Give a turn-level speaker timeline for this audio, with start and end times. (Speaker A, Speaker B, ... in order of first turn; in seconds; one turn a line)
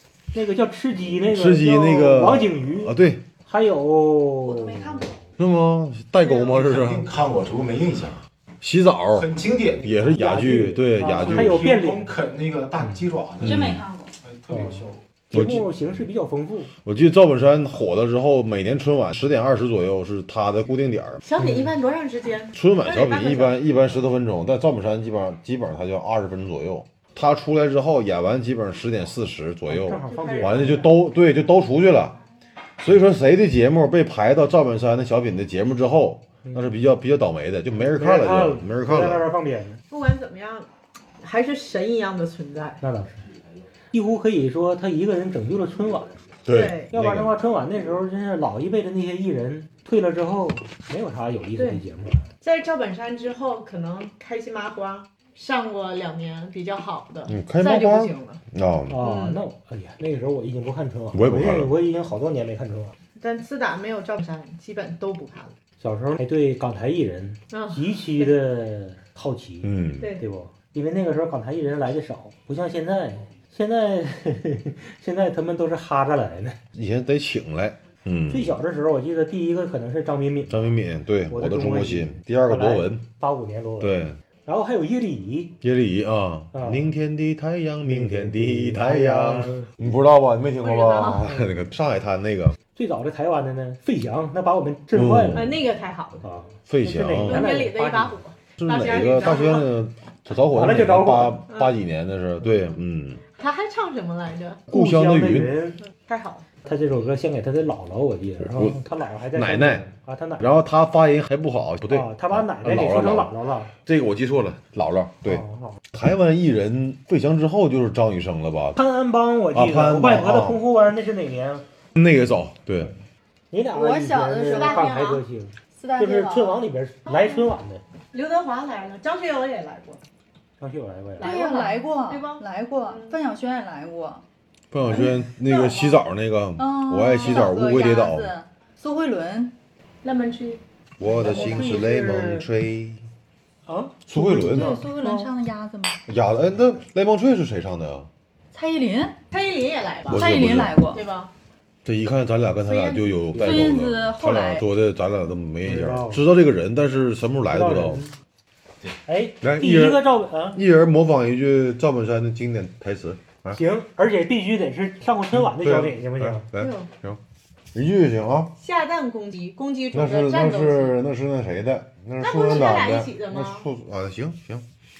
Speaker A: 0.3-2.9
Speaker B: 1.3-3.2
Speaker A: 3.4-5.1
Speaker C: 4.4-5.2
Speaker B: 5.4-7.1
Speaker D: 6.3-8.2
Speaker B: 8.6-9.3
Speaker D: 9.1-10.2
Speaker B: 9.8-11.7
Speaker A: 10.2-12.1
Speaker D: 11.1-15.0
Speaker B: 13.4-13.8
Speaker C: 13.4-14.1
Speaker A: 14.5-16.7
Speaker B: 15.3-15.7
Speaker B: 16.8-21.2
Speaker E: 21.2-23.6
Speaker B: 22.5-32.2
Speaker A: 29.7-31.0
Speaker E: 30.1-30.8
Speaker B: 32.8-39.2
Speaker A: 36.4-36.7
Speaker A: 37.8-39.8
Speaker E: 39.9-40.7
Speaker E: 41.2-42.8
Speaker A: 42.8-43.2
Speaker A: 43.9-46.1
Speaker B: 46.5-47.3
Speaker E: 46.5-46.9
Speaker A: 46.9-52.2
Speaker E: 51.6-51.8
Speaker E: 52.4-58.4
Speaker B: 57.3-59.0
Speaker A: 58.9-62.9
Speaker E: 59.0-59.4
Speaker B: 61.1-61.7
Speaker E: 63.2-65.5
Speaker A: 65.8-76.6
Speaker E: 67.5-68.3
Speaker B: 69.6-70.1
Speaker E: 70.0-70.2
Speaker B: 76.7-78.5
Speaker A: 78.3-80.7
Speaker B: 80.5-83.0
Speaker A: 81.3-85.5
Speaker B: 83.8-84.2
Speaker B: 85.6-92.6
Speaker A: 86.5-86.8
Speaker A: 87.8-89.7
Speaker E: 90.6-91.3
Speaker A: 92.7-95.6
Speaker B: 94.9-95.6
Speaker E: 95.3-96.3
Speaker A: 96.2-98.2
Speaker B: 96.7-97.5
Speaker E: 97.2-99.8
Speaker B: 98.6-103.2
Speaker A: 100.5-101.4
Speaker E: 103.4-104.6
Speaker B: 104.7-105.5
Speaker A: 104.7-105.8
Speaker E: 105.9-106.5
Speaker A: 106.6-110.5
Speaker B: 109.3-109.8
Speaker B: 110.4-118.8
Speaker A: 111.9-113.7
Speaker A: 115.2-115.8
Speaker A: 118.8-121.6
Speaker B: 119.5-120.6
Speaker B: 121.9-122.9
Speaker A: 123.5-127.8
Speaker C: 123.7-125.0
Speaker E: 124.5-125.2
Speaker C: 125.8-126.7
Speaker E: 127.0-127.5
Speaker E: 128.1-130.0
Speaker A: 130.6-131.3
Speaker E: 131.2-133.2
Speaker C: 131.2-134.2
Speaker B: 134.7-138.3
Speaker E: 134.9-136.0
Speaker C: 136.6-139.5
Speaker E: 140.0-140.6
Speaker B: 141.0-143.0
Speaker A: 141.2-142.4
Speaker E: 141.2-141.8
Speaker A: 143.7-145.3
Speaker B: 144.1-144.8
Speaker C: 144.4-146.0
Speaker B: 146.1-148.1
Speaker C: 148.5-149.2
Speaker E: 149.3-150.3
Speaker B: 150.1-150.7
Speaker C: 150.1-151.0
Speaker E: 150.8-151.3
Speaker B: 151.8-158.0
Speaker E: 152.6-153.1
Speaker A: 153.3-153.7
Speaker C: 153.3-154.6
Speaker A: 155.6-156.2
Speaker A: 157.5-158.1
Speaker A: 159.1-160.6
Speaker B: 159.4-163.6
Speaker A: 163.5-166.5
Speaker B: 165.3-167.2
Speaker E: 166.5-166.9
Speaker B: 167.7-168.5
Speaker E: 168.6-171.0
Speaker B: 169.9-174.7
Speaker E: 172.2-173.7